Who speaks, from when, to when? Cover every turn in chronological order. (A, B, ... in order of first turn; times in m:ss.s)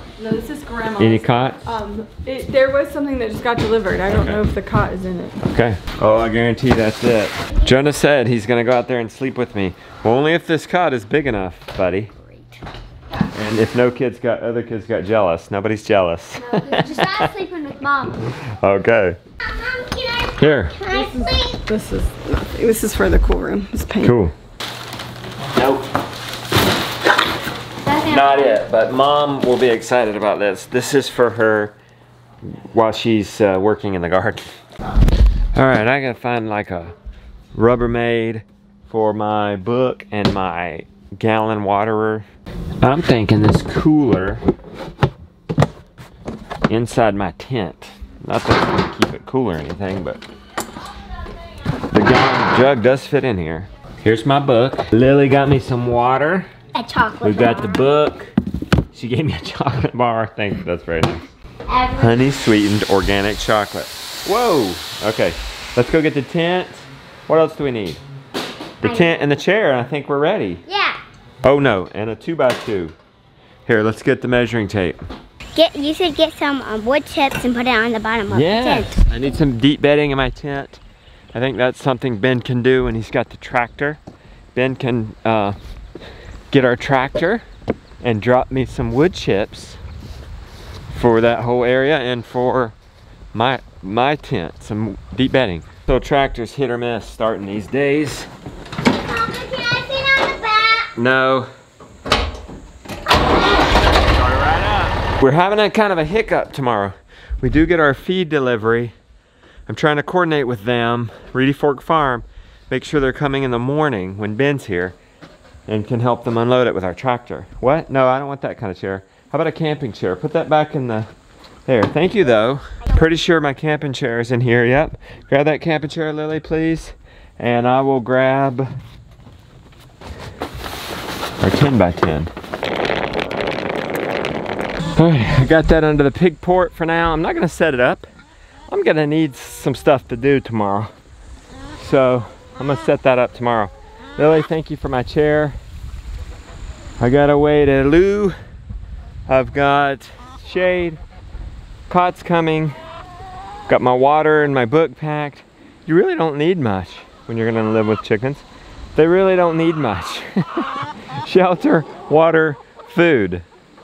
0:00.2-0:05.4 A
0:01.0-0:01.6 B
0:04.0-0:04.4 B
0:05.4-0:12.1 B
0:12.2-0:12.6 C
0:13.3-0:17.3 B
0:16.4-0:18.2 C
0:18.4-0:19.2 B
0:19.4-0:21.6 C
0:20.4-0:20.8 B
0:20.9-0:24.2 A
0:24.0-0:24.3 B
0:25.6-0:25.9 B
0:27.8-0:28.6 C
0:28.0-0:31.8 B
0:32.4-0:34.5 B
0:35.6-0:36.9 B
0:37.6-0:42.3 B
0:42.8-0:44.4 B
0:46.7-0:50.2 B
0:51.9-0:56.5 B
0:56.7-0:57.8 C
0:57.2-0:58.3 B
0:58.9-1:01.2 B
1:01.7-1:02.2 C
1:02.0-1:08.0 B
1:08.8-1:10.6 B
1:08.8-1:09.1 C
1:10.7-1:11.0 C
1:11.4-1:13.0 B
1:13.7-1:15.0 B
1:15.5-1:19.0 C
1:18.3-1:20.8 B
1:21.3-1:24.0 B
1:24.6-1:25.6 B
1:26.5-1:27.4 B
1:28.0-1:29.8 B
1:30.9-1:32.8 B
1:33.3-1:38.3 B
1:39.1-1:40.9 C
1:41.0-1:41.5 B
1:43.7-1:48.9 B
1:49.7-1:55.0 B
1:55.7-2:01.1 B
2:01.7-2:08.7 B
2:11.4-2:12.3 B
2:15.0-2:18.1 B
2:18.7-2:20.9 B
2:21.8-2:25.6 B
2:27.0-2:28.4 B
2:29.3-2:31.0 B
2:31.9-2:32.8 B
2:33.7-2:40.7 B
2:41.2-2:43.4 B